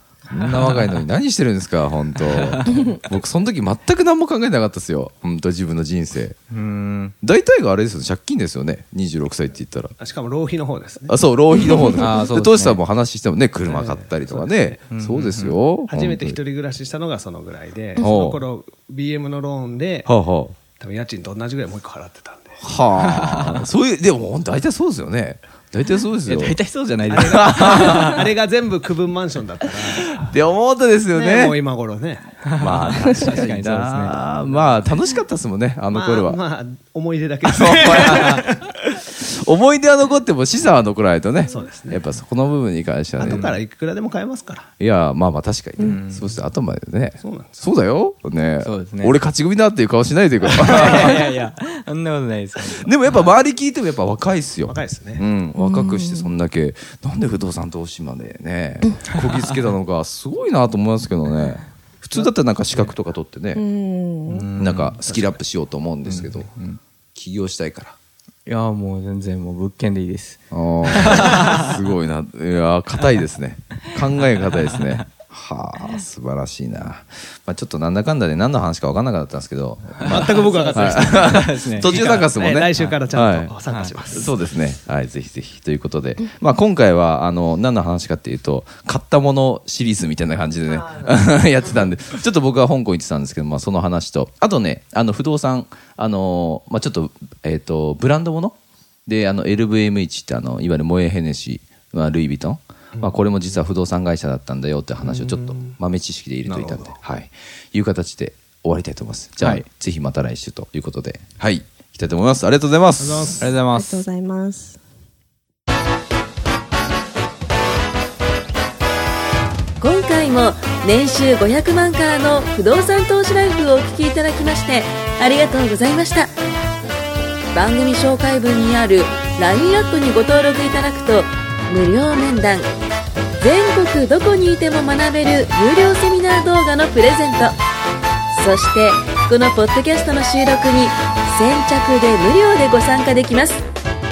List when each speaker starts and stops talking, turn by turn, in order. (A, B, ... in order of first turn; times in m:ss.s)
0:00.3-0:06.4 A
0:00.4-0:00.9 B
0:02.3-0:02.7 B
0:06.5-0:07.1 B
0:07.2-0:09.9 A
0:10.0-0:11.2 C
0:11.1-0:16.4 A
0:12.0-0:12.8 B
0:13.6-0:14.9 C
0:14.9-0:15.6 B
0:15.8-0:20.1 C
0:18.0-0:18.4 A
0:20.0-0:20.6 A
0:20.8-0:22.6 C
0:22.6-0:26.6 A
0:23.0-0:23.6 B
0:26.2-0:28.2 B
0:27.1-0:30.2 C
0:27.2-0:28.2 A
0:30.1-0:31.6 A
0:31.1-0:32.4 C
0:32.4-0:34.2 B
0:32.6-0:36.4 A
0:35.9-0:38.6 C
0:37.5-0:43.6 A
0:41.4-0:42.1 C
0:43.2-0:44.7 C
0:44.8-0:51.3 A
0:45.8-0:46.3 B
0:47.2-0:47.6 C
0:48.6-0:49.2 B
0:50.5-0:53.3 B
0:52.8-1:03.6 A
0:54.6-0:55.2 C
0:55.6-0:56.3 D
1:03.5-1:04.5 D
1:04.3-1:05.0 B
1:04.6-1:06.5 A
1:06.0-1:06.8 B
1:07.1-1:08.0 A
1:08.4-1:11.8 B
1:10.5-1:38.6 A
1:14.5-1:15.0 B
1:20.0-1:22.2 B
1:20.0-1:24.4 C
1:23.6-1:24.0 B
1:39.1-1:53.4 A
1:45.0-1:45.8 C
1:46.4-1:47.0 C
1:53.0-1:53.5 C
1:53.4-1:54.0 B
1:53.7-1:54.8 D
1:59.8-2:06.4 E
2:07.5-2:12.7 E
2:13.4-2:17.6 E
2:18.3-2:23.6 E